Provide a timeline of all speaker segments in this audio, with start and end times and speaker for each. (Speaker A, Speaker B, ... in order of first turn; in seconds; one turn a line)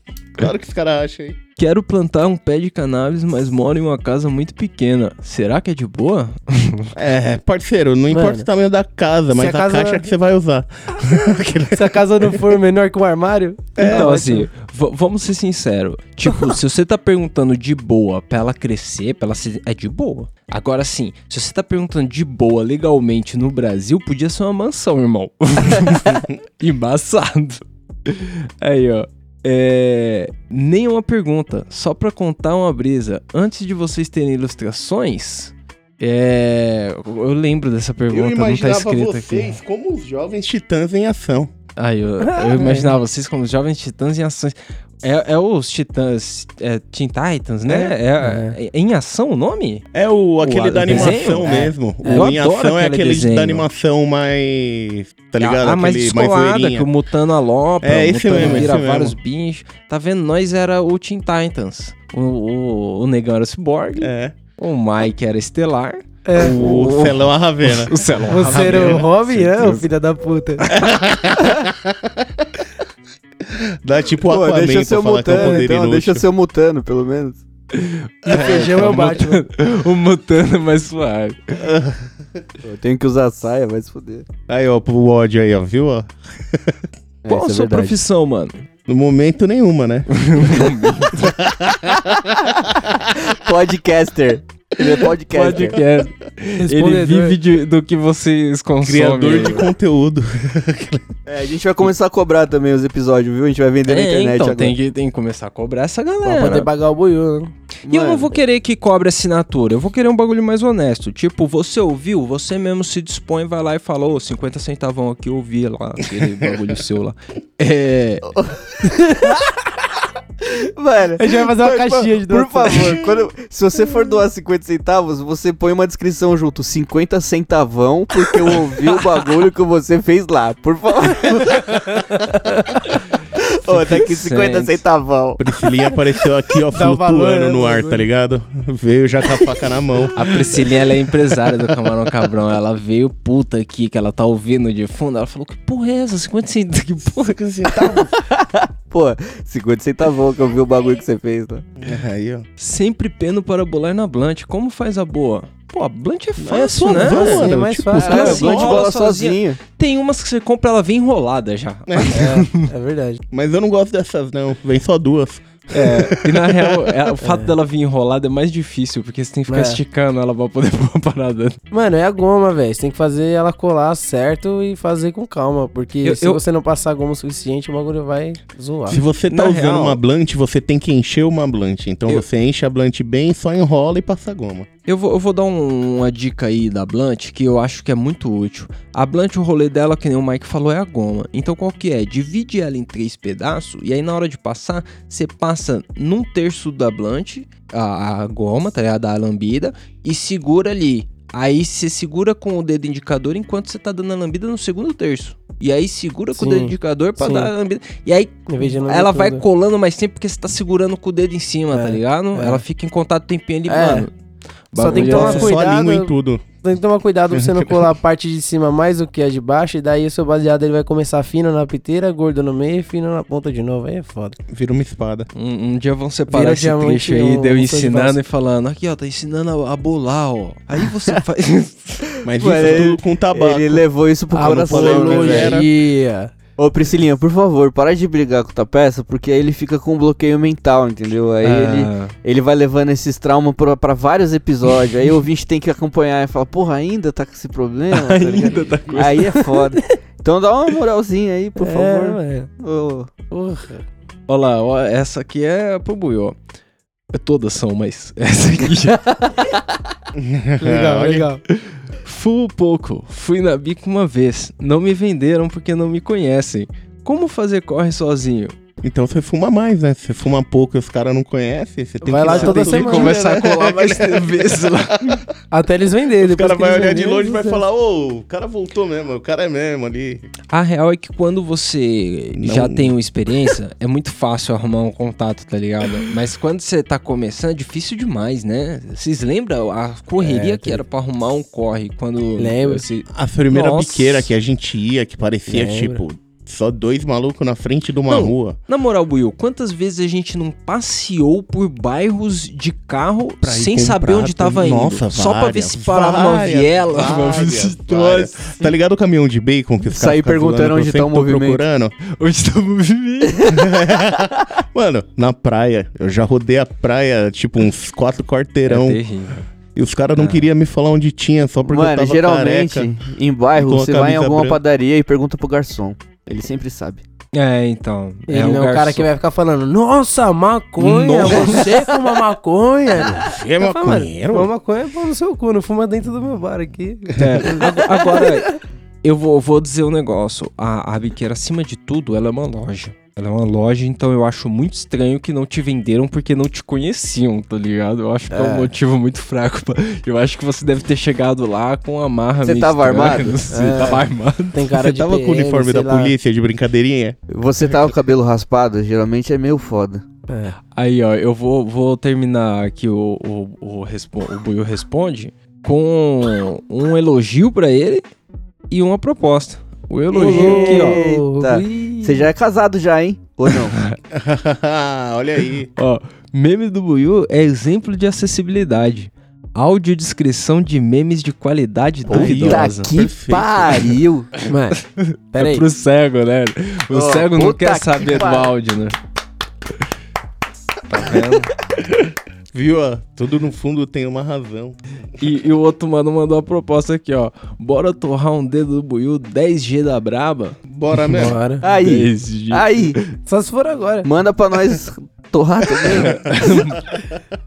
Speaker A: 0.4-1.4
Speaker B: 1.6-6.9
Speaker A: 6.9-12.3
Speaker C: 8.1-8.4
Speaker C: 9.3-10.1
Speaker C: 11.7-14.5
Speaker A: 13.8-14.1
Speaker B: 13.8-39.6
Speaker A: 38.1-41.5
Speaker B: 41.8-49.8
Speaker C: 42.5-42.9
Speaker A: 47.7-48.0
Speaker C: 48.2-48.5
Speaker A: 49.9-56.9
Speaker B: 50.4-53.6
Speaker C: 50.9-51.2
Speaker C: 52.0-52.4
Speaker B: 55.4-67.1
Speaker A: 57.8-59.1
Speaker C: 58.3-58.7
Speaker A: 64.0-64.3
Speaker C: 66.2-66.6
Speaker A: 66.4-69.0
Speaker D: 66.6-67.2
Speaker B: 67.6-69.9
Speaker C: 68.3-70.8
Speaker A: 70.7-72.6
Speaker A: 73.5-76.2
Speaker D: 74.2-77.4
Speaker C: 75.3-75.6
Speaker B: 77.7-81.6
Speaker C: 78.3-79.4
Speaker A: 81.6-82.1
Speaker D: 82.6-84.3
Speaker A: 84.5-86.7
Speaker D: 87.2-88.0
Speaker B: 87.3-88.6
Speaker A: 88.9-92.3
Speaker B: 90.2-91.3
Speaker D: 93.1-95.8
Speaker B: 95.3-99.7
Speaker C: 96.6-97.4
Speaker A: 98.8-101.0
Speaker D: 101.3-104.8
Speaker B: 103.8-106.7
Speaker C: 106.2-107.5
Speaker D: 107.8-108.4
Speaker B: 107.9-118.2
Speaker D: 118.3-119.6
Speaker D: 120.4-131.8
Speaker C: 121.2-123.1
Speaker D: 133.3-135.4
Speaker B: 133.7-134.8
Speaker A: 135.4-140.2
Speaker C: 136.7-138.1
Speaker B: 140.2-147.4
Speaker A: 147.2-148.2
Speaker D: 147.8-151.7
Speaker A: 151.8-152.4
Speaker B: 152.6-162.7
Speaker A: 156.4-158.8
Speaker C: 156.9-158.8
Speaker D: 157.9-159.6
Speaker A: 161.9-162.3
Speaker C: 162.1-163.2
Speaker A: 163.3-166.5
Speaker B: 165.7-171.6
Speaker C: 167.2-167.5
Speaker C: 169.5-169.8
Speaker C: 171.7-179.0
Speaker B: 176.0-176.4
Speaker A: 178.9-184.7
Speaker B: 179.3-180.0
Speaker B: 184.8-214.1
Speaker C: 206.3-207.5
Speaker C: 208.5-209.4
Speaker C: 211.7-212.6
Speaker C: 213.7-214.1
Speaker B: 214.7-215.6
Speaker C: 214.7-224.4
Speaker A: 214.9-216.4
Speaker A: 217.3-217.8
Speaker A: 224.5-225.3
Speaker B: 225.3-232.8
Speaker C: 226.3-228.2
Speaker A: 232.2-233.8
Speaker D: 232.3-235.6
Speaker C: 234.3-236.3
Speaker A: 234.3-235.7
Speaker D: 236.6-253.1
Speaker B: 241.4-242.1
Speaker B: 247.9-249.3
Speaker C: 251.6-252.5
Speaker C: 253.3-253.8
Speaker B: 254.3-256.4
Speaker B: 257.1-259.1
Speaker A: 260.1-261.3
Speaker C: 260.6-261.4
Speaker B: 262.0-268.5
Speaker A: 268.8-275.2
Speaker C: 272.0-273.3
Speaker B: 272.2-275.2
Speaker C: 275.5-277.6
Speaker A: 276.2-280.2
Speaker B: 280.5-292.8
Speaker A: 282.4-282.9
Speaker C: 290.2-290.8
Speaker C: 292.4-293.0
Speaker A: 293.1-298.6
Speaker B: 293.5-294.3
Speaker C: 295.5-296.0
Speaker B: 298.1-308.5
Speaker A: 303.4-311.9
Speaker D: 306.9-307.4
Speaker D: 309.8-311.6
Speaker B: 312.1-313.6
Speaker D: 313.5-314.2
Speaker A: 313.5-319.0
Speaker B: 318.7-319.4
Speaker A: 319.7-322.9
Speaker B: 320.1-320.5
Speaker D: 321.7-327.0
Speaker A: 323.5-324.6
Speaker B: 327.3-329.1
Speaker C: 328.3-338.3
Speaker B: 330.8-331.7
Speaker A: 332.9-334.5
Speaker B: 337.1-354.7
Speaker A: 337.2-337.4
Speaker C: 348.3-348.8
Speaker D: 352.4-353.4
Speaker C: 353.5-356.1
Speaker A: 354.7-357.2
Speaker D: 357.3-360.0
Speaker C: 360.3-360.6
Speaker B: 360.7-368.0
Speaker B: 368.7-371.0
Speaker C: 370.1-372.3
Speaker D: 370.1-373.8
Speaker B: 373.5-373.9
Speaker A: 374.1-375.7
Speaker B: 375.8-382.9
Speaker D: 382.1-384.4
Speaker A: 382.1-383.9
Speaker C: 384.5-384.8
Speaker B: 384.9-388.9
Speaker C: 385.3-385.7
Speaker D: 386.9-388.5
Speaker B: 390.9-391.5
Speaker A: 392.5-394.8
Speaker B: 395.2-403.1
Speaker A: 400.6-401.4
Speaker C: 401.1-401.6
Speaker D: 401.6-403.0
Speaker C: 403.2-404.1
Speaker D: 404.0-406.6
Speaker B: 405.9-406.9